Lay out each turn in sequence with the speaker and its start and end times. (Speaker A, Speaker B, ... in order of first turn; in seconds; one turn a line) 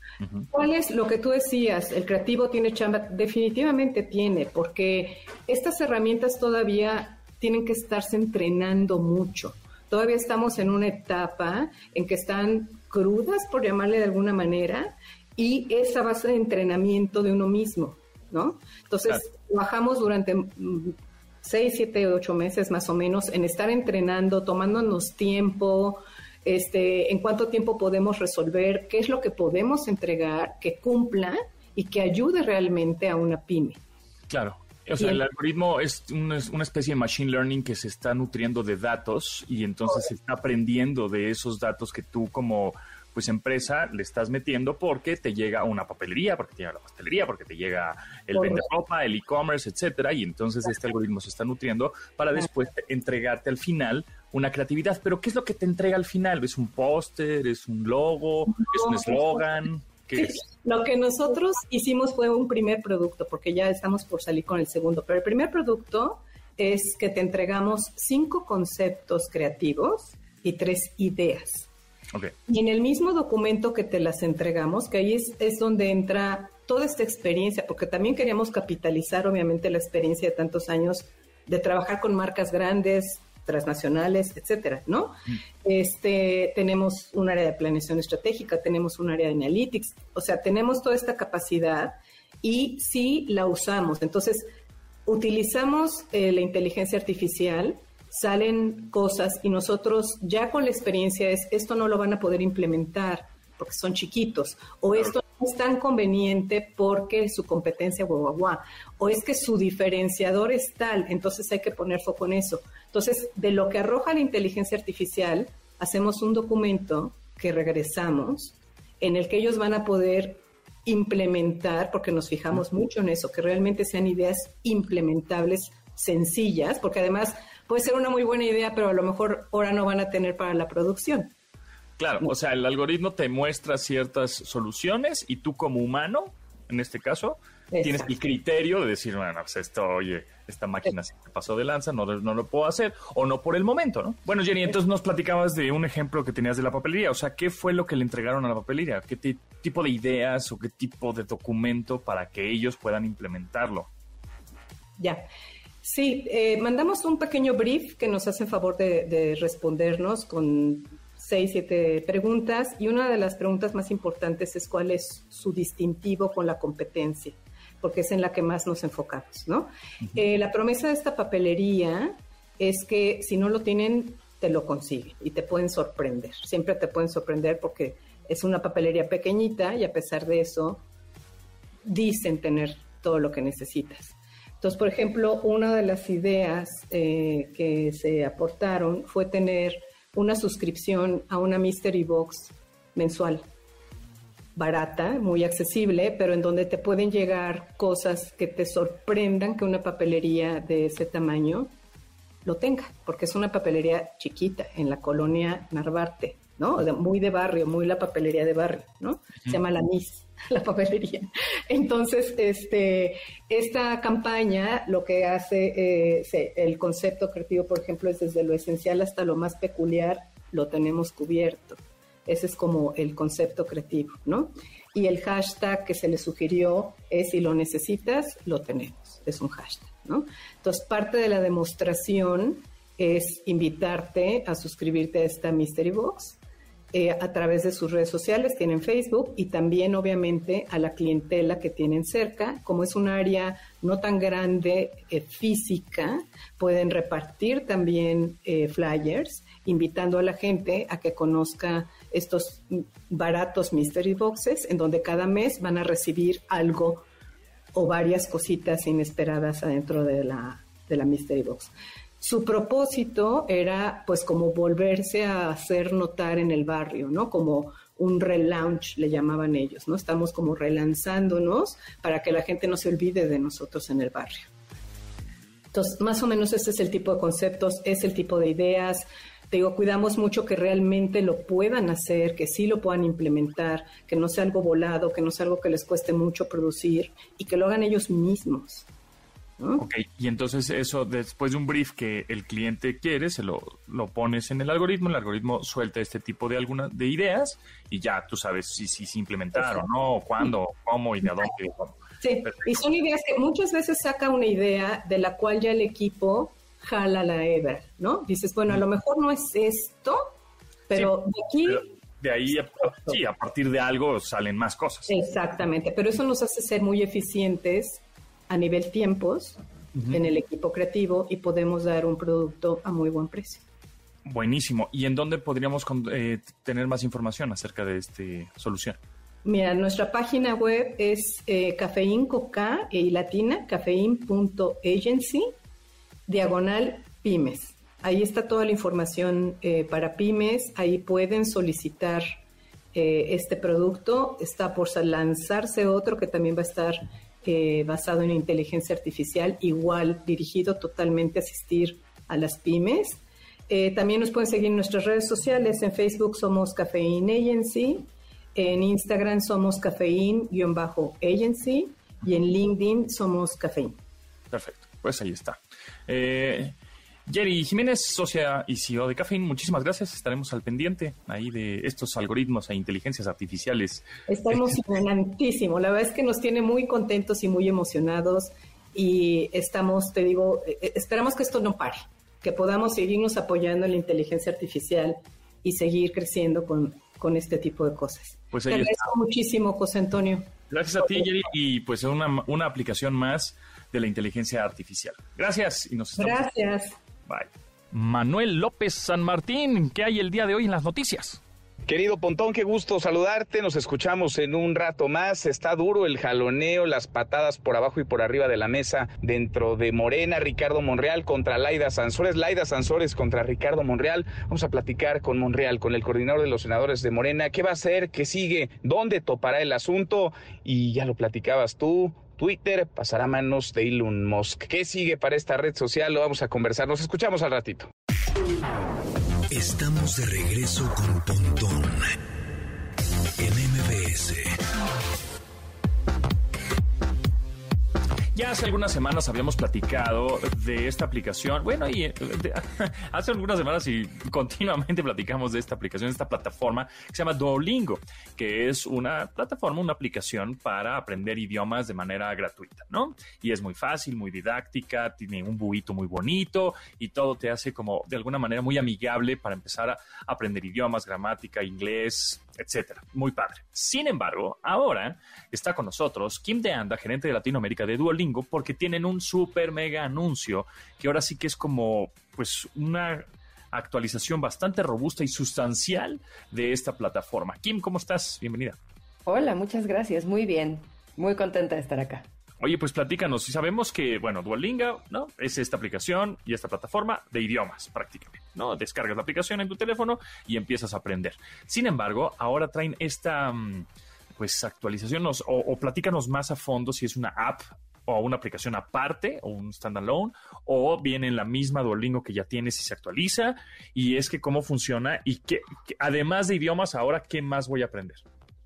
Speaker A: 0.2-0.5
Speaker B: 0.5-33.8
Speaker A: 34.3-60.4
Speaker B: 35.0-35.2
Speaker B: 48.3-48.7
Speaker B: 58.6-59.4
Speaker B: 60.2-71.7
Speaker B: 72.5-94.5
Speaker B: 95.1-131.3
Speaker A: 132.0-153.9
Speaker B: 137.7-138.1
Speaker B: 155.0-155.2
Speaker B: 155.8-180.8
Speaker B: 181.8-193.4
Speaker B: 194.6-201.7
Speaker B: 202.4-236.4
Speaker B: 236.9-257.1
Speaker B: 257.7-274.5
Speaker B: 275.7-288.9
Speaker A: 289.8-302.8
Speaker B: 299.6-299.8
Speaker B: 302.2-310.3
Speaker B: 310.9-311.9
Speaker A: 310.9-315.4
Speaker B: 312.8-313.2
Speaker B: 315.1-323.6
Speaker A: 319.9-320.2
Speaker A: 324.3-329.0
Speaker B: 329.4-335.5
Speaker B: 336.3-342.3
Speaker B: 342.9-364.0
Speaker A: 364.5-366.8
Speaker A: 367.3-374.8
Speaker B: 374.3-390.5
Speaker A: 388.5-389.1
Speaker A: 390.7-396.5
Speaker B: 396.2-397.0
Speaker A: 397.3-401.4
Speaker C: 401.9-427.9
Speaker D: 429.5-432.1
Speaker D: 433.4-434.6
Speaker A: 438.4-478.8
Speaker E: 479.3-482.3
Speaker A: 482.6-508.2